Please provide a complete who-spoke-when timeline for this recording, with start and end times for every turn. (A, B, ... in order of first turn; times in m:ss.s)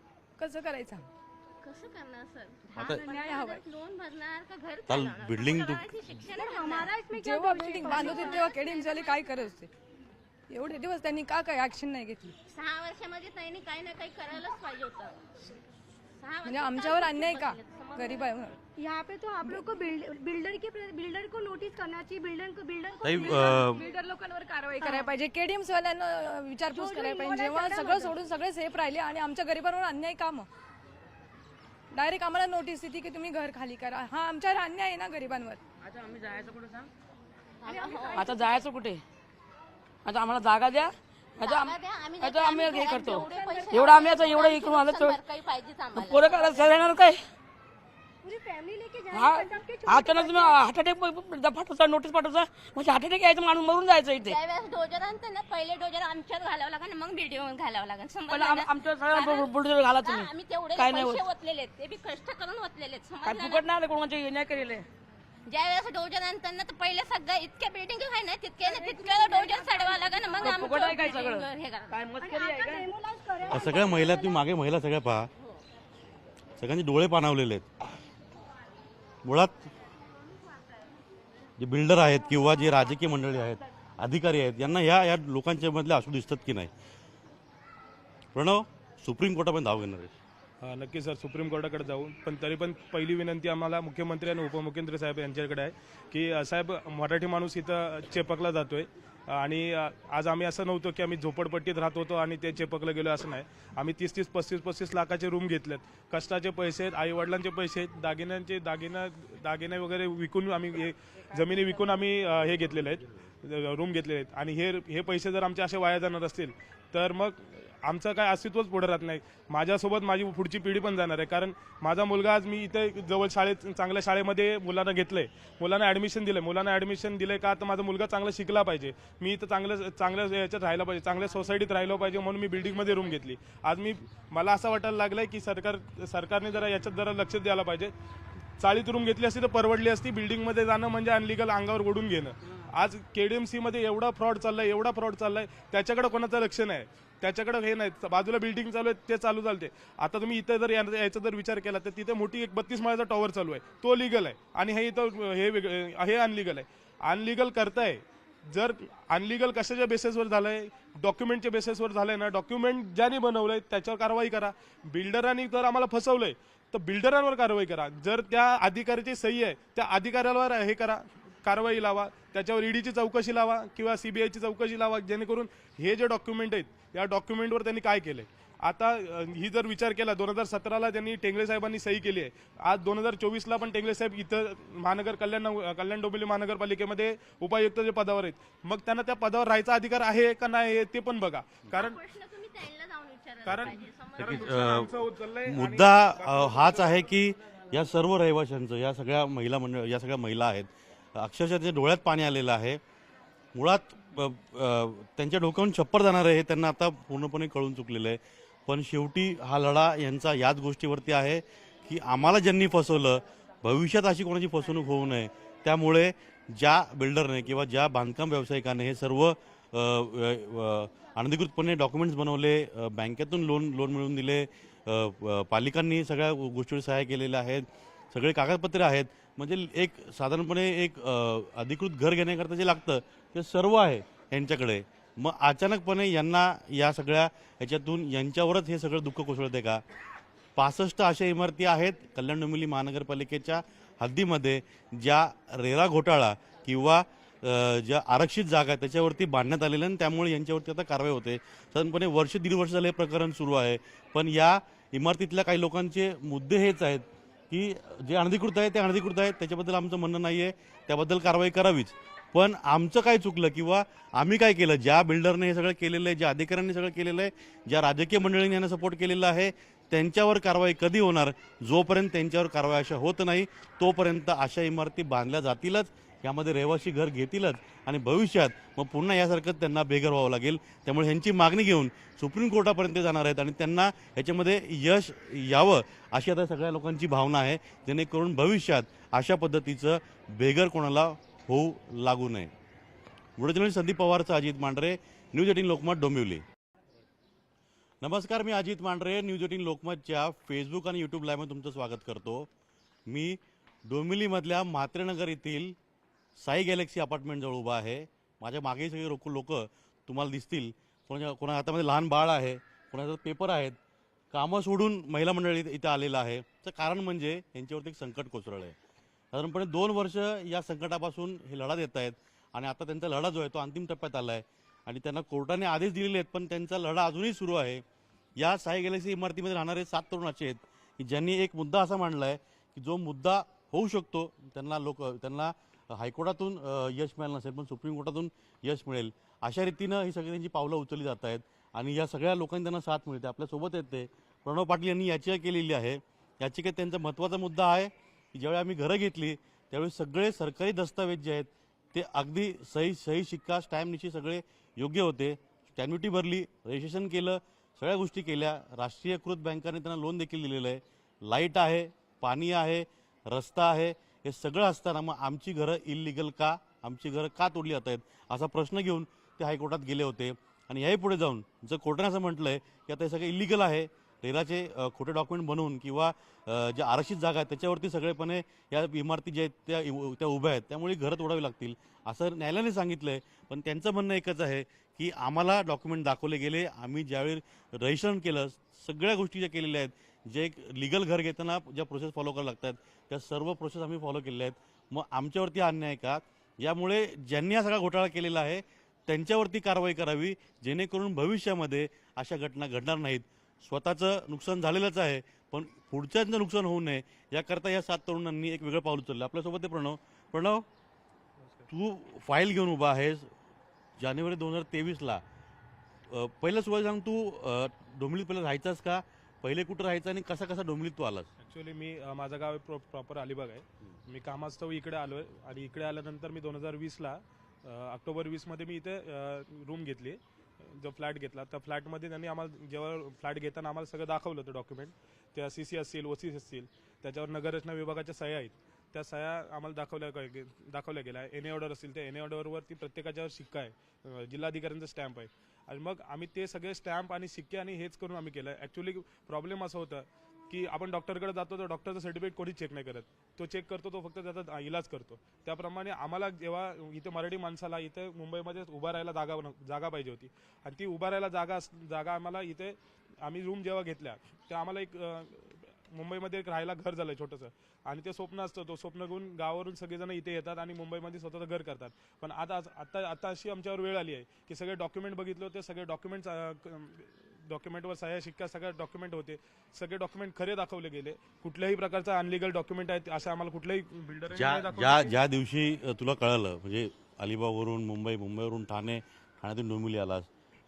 0:00.4-0:01.1 A
0:01.6-0:06.9 B
0:02.8-0:03.0 C
0:02.9-0:03.6 A
0:04.9-0:05.9 C
0:06.4-0:08.5 D
0:07.1-0:09.7 A
0:07.8-0:09.4 B
0:10.5-0:12.4 A
0:12.5-0:15.2 B
0:16.2-0:18.2 B
0:16.5-0:18.6 A
0:18.8-0:24.0 D
0:23.0-0:23.8 C
0:23.2-0:30.5 A
0:24.8-0:25.1 D
0:26.7-0:28.2 D
0:31.9-0:35.6 A
0:37.6-0:38.4 B
0:37.7-0:38.5 D
0:38.1-0:39.0 E
0:40.0-0:45.2 E
0:41.4-0:46.9 B
0:43.0-0:44.1 D
0:46.0-0:47.2 E
0:48.2-0:50.6 D
0:49.1-0:54.4 E
0:54.3-1:03.7 B
0:58.3-1:01.2 E
1:03.2-1:04.9 E
1:05.5-1:12.0 B
1:08.6-1:10.2 D
1:10.4-1:12.9 E
1:12.2-1:14.5 D
1:13.5-1:15.3 C
1:16.6-1:17.7 C
1:19.2-1:19.6 C
1:21.6-1:26.7 C
1:28.4-1:30.2 C
1:30.6-2:17.9 F
2:18.6-3:12.0 F
3:11.7-3:14.7 B
3:13.4-3:17.6 F
3:14.2-3:22.8 C
3:23.6-3:59.8 C
4:00.6-4:52.5 C
4:53.4-4:56.4 C
4:58.0-5:02.5 C
5:03.1-5:05.8 C
5:06.4-5:13.8 C
5:14.3-5:18.8 C
5:19.3-5:27.8 C
5:28.4-6:50.6 C
6:51.7-6:53.3 C
6:54.0-6:55.2 C
6:56.1-7:01.3 C
7:01.4-8:05.2 F
8:04.3-8:10.3 C